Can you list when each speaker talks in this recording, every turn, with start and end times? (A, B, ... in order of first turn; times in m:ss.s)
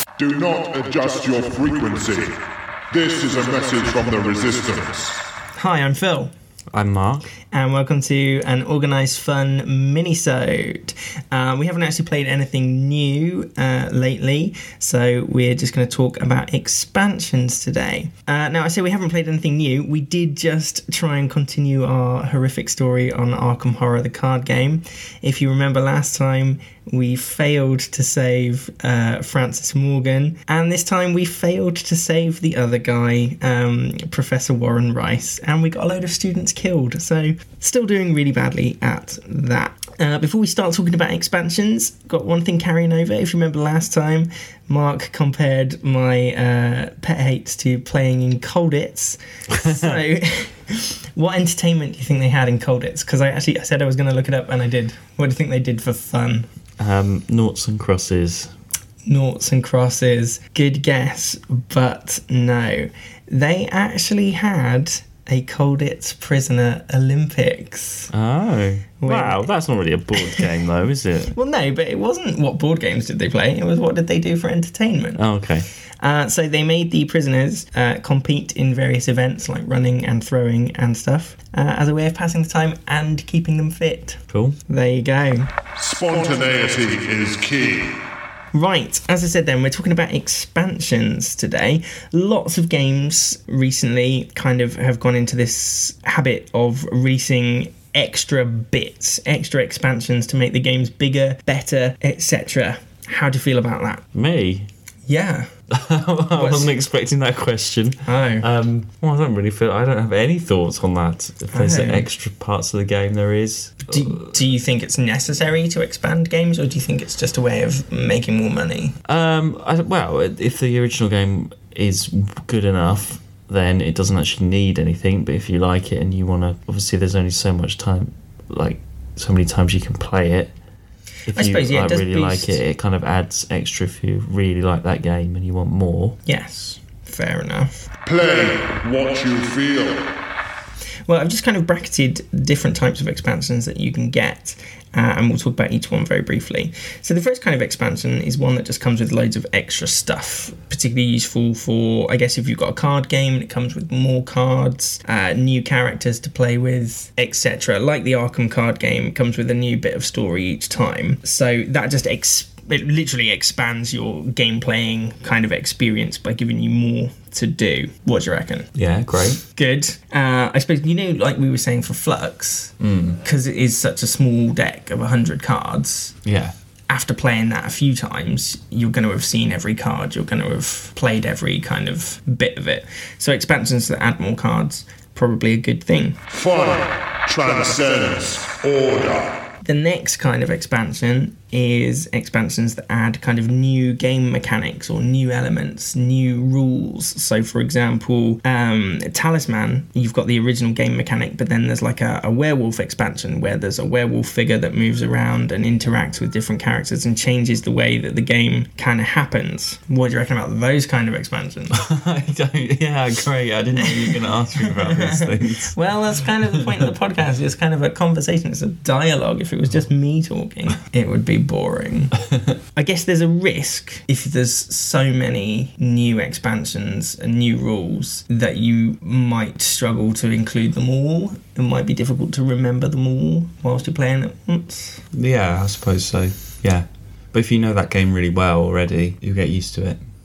0:00.2-0:05.2 A
0:05.6-0:06.3 B
0:06.7-0:07.3 C
0:07.5-0:56.5 B
0:49.6-0:49.9 C
0:56.8-0:58.5 C
0:59.1-1:08.1 B
1:08.1-1:11.3 C
1:09.0-1:09.5 B
1:10.2-1:10.4 B
1:11.3-1:15.3 B
1:15.2-1:15.7 C
1:16.0-1:25.5 B
1:24.3-1:24.6 C
1:25.8-1:28.0 A
1:28.5-1:44.0 B
1:44.1-1:44.7 C
1:45.1-1:45.5 B
1:45.7-1:54.3 C
1:46.4-1:46.7 B
1:48.0-1:48.5 B
1:51.5-1:52.1 B
1:53.9-1:59.0 B
1:59.1-2:10.5 C
2:11.3-2:16.2 C
2:11.3-2:12.6 B
2:16.2-2:17.9 B
2:18.0-2:20.1 A
2:21.1-2:48.7 B
2:48.8-2:49.4 C
2:49.4-2:56.2 B
2:52.8-2:53.2 C
2:56.2-2:56.5 C
2:56.9-3:06.2 B
3:06.3-3:09.4 A
3:09.6-3:31.8 B
3:31.7-3:35.8 C
3:33.8-3:42.2 B
3:36.4-3:36.8 C
3:42.8-3:55.0 B
3:55.1-4:00.0 C